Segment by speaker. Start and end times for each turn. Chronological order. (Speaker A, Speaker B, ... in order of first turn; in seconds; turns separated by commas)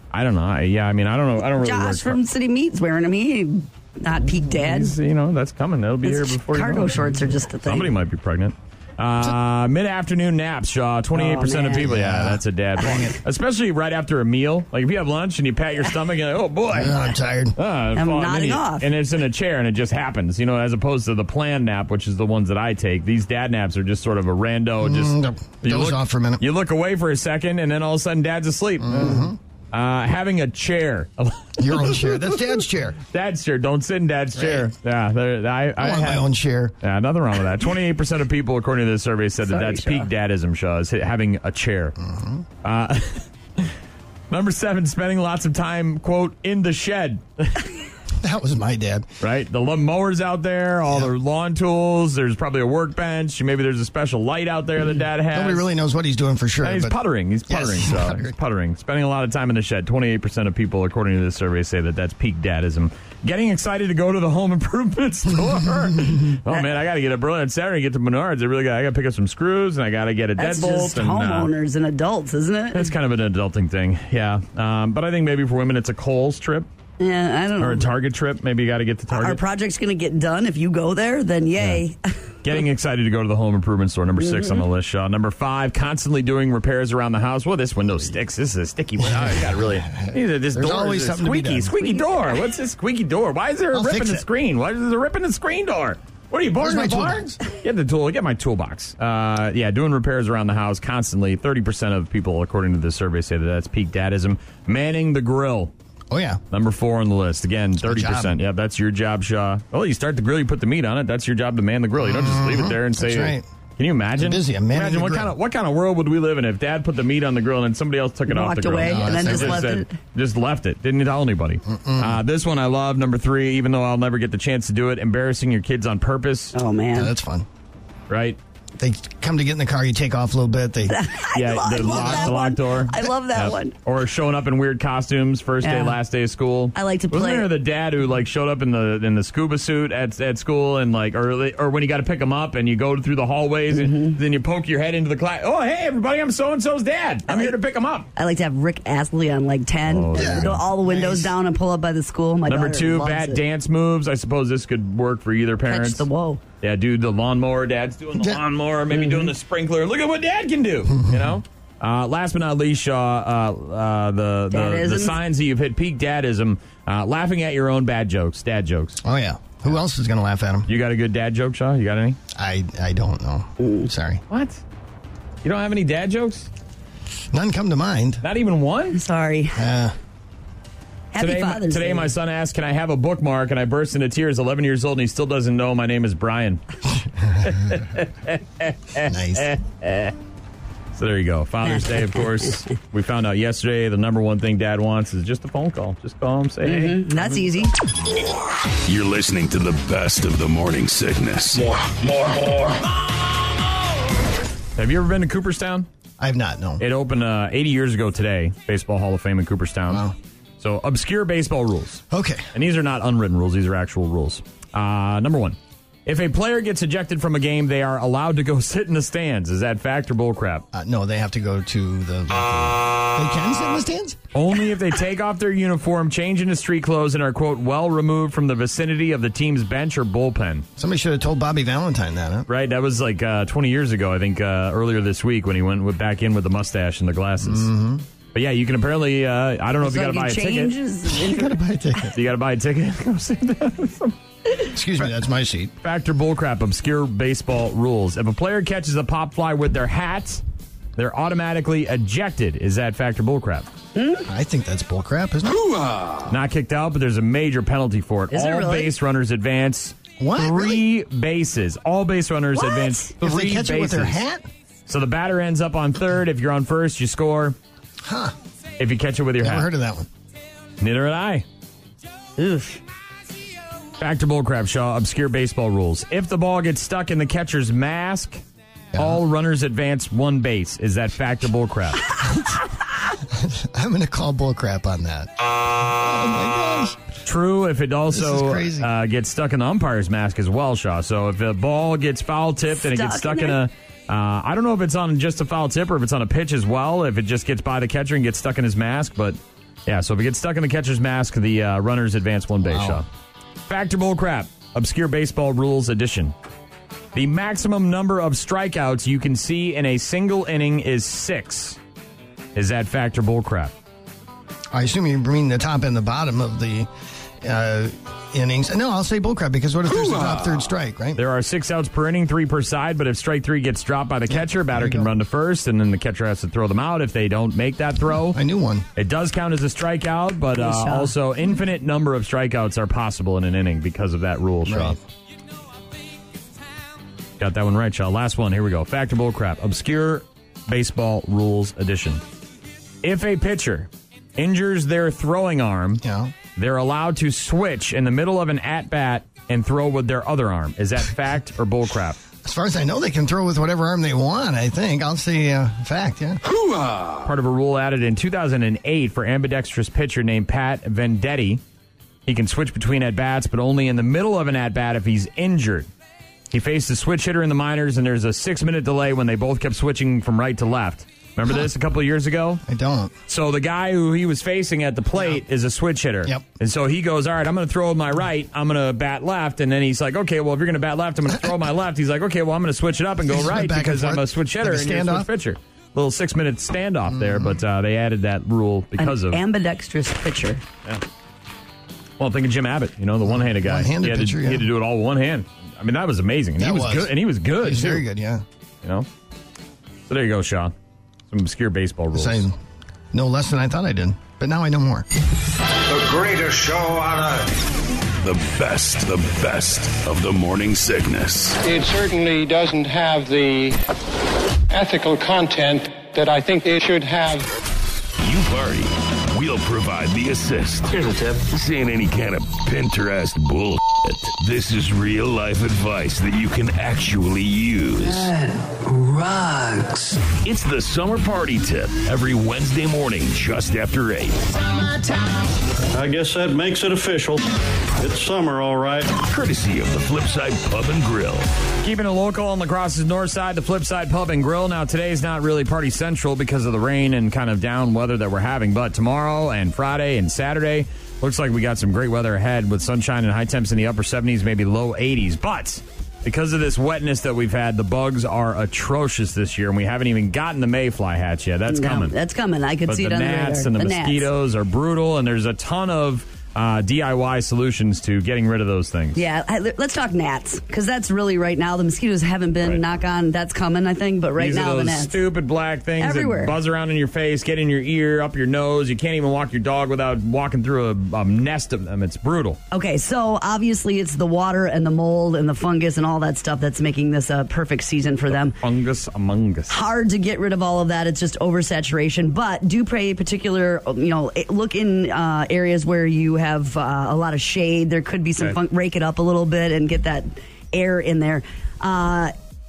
Speaker A: 0.1-2.2, Speaker B: 1.6-4.9, Speaker A: 4.5-17.1, Speaker B: 6.0-7.9, Speaker B: 11.1-11.9, Speaker C: 11.8-13.2, Speaker C: 16.7-17.6, Speaker A: 17.6-32.5, Speaker B: 17.9-18.9, Speaker C: 24.8-26.4, Speaker C: 28.8-29.4, Speaker C: 31.6-33.0, Speaker A: 33.1-36.3, Speaker C: 34.4-34.7, Speaker C: 35.8-36.7, Speaker A: 36.8-42.0, Speaker B: 39.5-40.1, Speaker C: 42.0-42.5, Speaker A: 42.6-43.7, Speaker A: 44.3-47.7, Speaker C: 48.2-49.1, Speaker A: 49.2-55.7, Speaker C: 55.3-57.0, Speaker A: 56.6-71.5, Speaker C: 57.5-58.3, Speaker B: 70.4-72.9, Speaker A: 72.7-76.7, Speaker B: 77.0-77.9, Speaker A: 77.6-79.4, Speaker B: 79.1-82.0, Speaker A: 82.4-105.7, Speaker B: 84.2-84.6, Speaker C: 89.0-91.7, Speaker C: 93.7-94.2, Speaker C: 96.6-97.3, Speaker C: 106.1-106.4, Speaker A: 106.5-126.5, Speaker C: 107.8-108.4, Speaker C: 112.0-113.5, Speaker C: 114.2-115.3, Speaker B: 118.3-119.9, Speaker C: 118.8-119.7, Speaker C: 121.7-122.2, Speaker B: 126.5-127.1, Speaker C: 126.9-127.5, Speaker A: 128.1-128.4, Speaker C: 128.8-131.0, Speaker B: 130.9-133.7, Speaker A: 131.3-148.1, Speaker C: 131.8-132.3, Speaker B: 135.6-136.0, Speaker B: 136.7-137.5, Speaker B: 143.7-144.2, Speaker B: 147.3-147.5, Speaker B: 148.2-153.4, Speaker A: 149.9-150.6, Speaker C: 150.1-151.3, Speaker A: 152.5-156.1, Speaker B: 155.7-156.4, Speaker A: 156.6-169.0, Speaker C: 158.2-158.4, Speaker B: 158.9-159.3, Speaker B: 164.5-165.2, Speaker C: 169.0-170.7, Speaker A: 170.7-172.2, Speaker C: 172.3-174.2, Speaker B: 173.6-173.9, Speaker A: 174.3-174.6, Speaker A: 175.4-176.5, Speaker C: 177.3-178.2, Speaker A: 178.2-179.0, Speaker B: 178.9-179.7, Speaker C: 179.6-179.9, Speaker B: 181.1-182.1, Speaker A: 181.2-186.6, Speaker A: 187.4-190.1, Speaker C: 189.0-189.5, Speaker A: 190.9-197.7, Speaker B: 196.6-197.7, Speaker D: 198.8-201.7, Speaker E: 201.6-202.8, Speaker A: 204.8-205.9, Speaker C: 206.2-206.8, Speaker A: 206.8-210.1, Speaker C: 209.9-210.2, Speaker A: 210.6-220.7, Speaker C: 212.1-212.5, Speaker C: 220.7-224.2, Speaker A: 224.3-230.7, Speaker C: 230.8-232.5, Speaker A: 232.5-237.7, Speaker C: 237.4-238.1, Speaker A: 238.3-240.7, Speaker B: 239.8-241.6, Speaker C: 241.1-242.2, Speaker A: 242.1-244.2, Speaker C: 244.6-245.7, Speaker A: 245.8-250.4, Speaker A: 251.0-253.7, Speaker B: 254.0-254.3, Speaker C: 254.3-255.7, Speaker D: 255.8-256.2, Speaker A: 256.3-264.2, Speaker B: 258.3-258.9, Speaker C: 260.2-260.8, Speaker B: 262.6-263.1, Speaker C: 263.2-264.5, Speaker A: 264.9-267.6, Speaker C: 268.0-268.4, Speaker A: 268.8-269.7, Speaker C: 269.4-270.1, Speaker A: 270.8-271.4, Speaker B: 272.4-272.8, Speaker A: 274.0-278.4, Speaker C: 278.9-279.2, Speaker A: 279.0-282.1, Speaker C: 283.3-287.0, Speaker A: 287.2-303.1, Speaker C: 288.1-288.9, Speaker B: 292.7-293.6, Speaker C: 302.6-303.0, Speaker A: 303.7-306.3, Speaker A: 307.1-311.8, Speaker A: 312.6-313.7, Speaker C: 314.7-316.9, Speaker C: 317.4-321.2, Speaker A: 321.2-328.4, Speaker C: 324.3-325.1, Speaker C: 328.3-328.9, Speaker A: 329.0-335.0, Speaker B: 330.6-331.1, Speaker C: 334.7-335.0, Speaker A: 337.4-342.2, Speaker A: 343.0-346.0, Speaker C: 346.0-346.4, Speaker A: 346.6-352.2, Speaker C: 352.4-356.4, Speaker A: 357.2-361.6, Speaker A: 362.3-365.9, Speaker A: 366.5-372.6, Speaker C: 372.7-373.1, Speaker A: 373.3-389.4, Speaker C: 383.3-385.3, Speaker C: 387.1-387.6, Speaker B: 389.0-390.6, Speaker A: 392.2-398.0, Speaker C: 393.2-394.7, Speaker C: 396.6-398.4, Speaker A: 400.1-400.7, Speaker A: 401.3-402.5, Speaker C: 402.1-402.6, Speaker C: 403.1-405.1, Speaker E: 405.9-407.5, Speaker D: 408.2-411.6, Speaker F: 411.6-413.8, Speaker F: 414.7-417.5, Speaker D: 418.2-428.3, Speaker G: 420.9-421.4, Speaker G: 428.0-430.3, Speaker D: 430.3-434.4, Speaker H: 435.9-437.4, Speaker H: 438.0-439.1, Speaker D: 439.2-441.5, Speaker A: 441.8-462.1, Speaker B: 461.7-464.3, Speaker A: 462.9-469.2, Speaker B: 469.1-475.2, Speaker A: 474.4-482.6, Speaker B: 476.0-476.6, Speaker B: 482.7-488.6, Speaker A: 488.3-489.8, Speaker B: 489.7-502.3